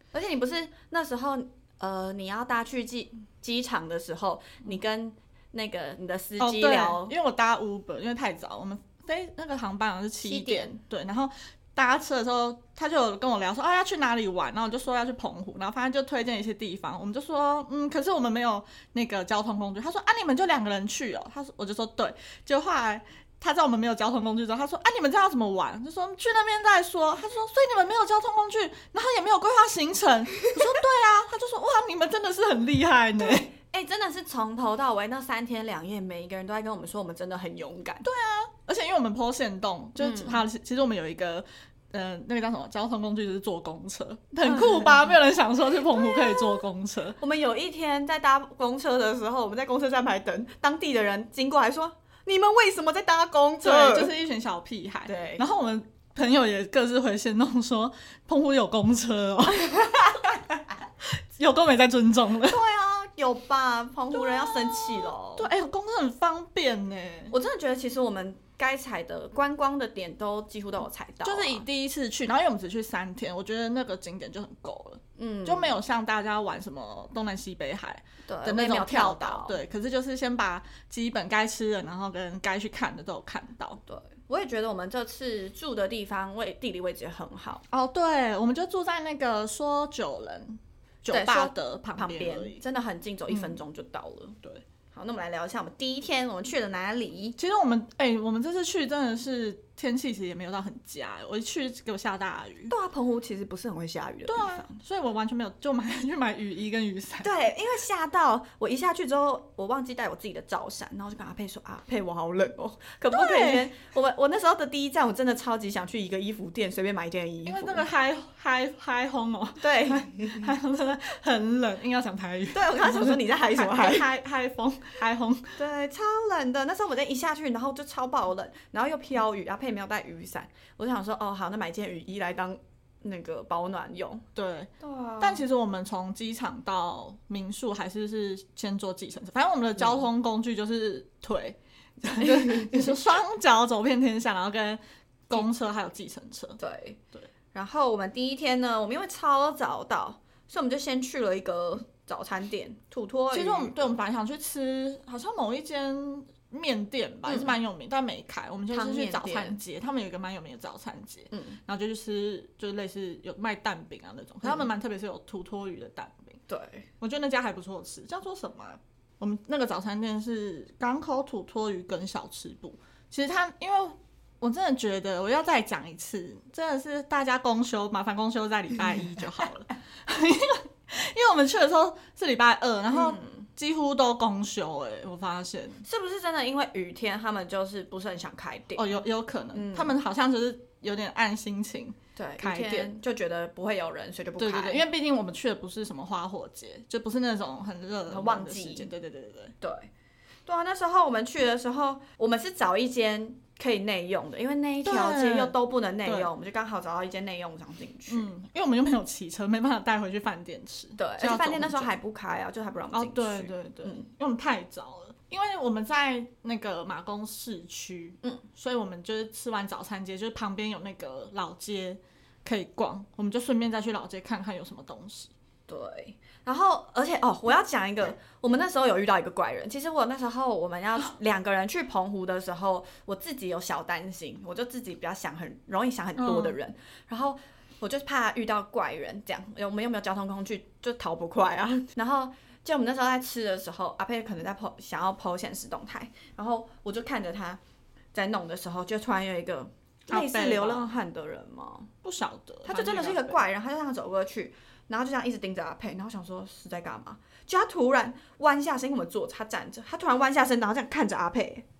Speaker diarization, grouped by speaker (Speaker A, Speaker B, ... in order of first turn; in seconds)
Speaker A: 0.1-7.1, 10.2-10.8, 33.2-38.0, 40.0-40.4, 44.5-44.9, 46.1-46.6, 47.2-54.1, 55.0-55.4, 59.7-60.3, 62.5-65.5, 67.3-71.6, 75.2-75.7, 78.2-79.6, 83.9-87.6, 91.1-94.4, 94.9-97.3, 102.7-104.8, 107.2-117.9, 119.6-120.5, 122.5-124.1, 125.5-134.2, 134.8-135.4, 142.2-142.8, 146.6-147.0, 147.5-153.9, 157.3-157.6, 158.7-159.6, 161.3-161.6, 166.5-166.9, 182.9-183.4, 185.8-188.8, 189.5-189.9, 192.2-194.8, 198.1-198.9, 199.6-199.9, 200.4-208.3, 211.0-214.0, 225.7-247.6, 248.1-251.9, 252.7-261.6
Speaker B: 6.4-33.5, 38.0-47.2, 53.6-62.6, 64.1-67.3, 71.2-83.8, 87.7-92.6, 93.3-93.5, 97.4-102.7, 104.3-107.3, 113.1-113.7, 117.4-125.6, 134.3-146.6, 153.3-166.4, 167.0-185.8, 188.8-192.9, 194.4-199.5, 204.8-206.3, 208.1-211.9, 212.9-225.3, 236.2-236.6, 250.1-250.9, 252.0-253.4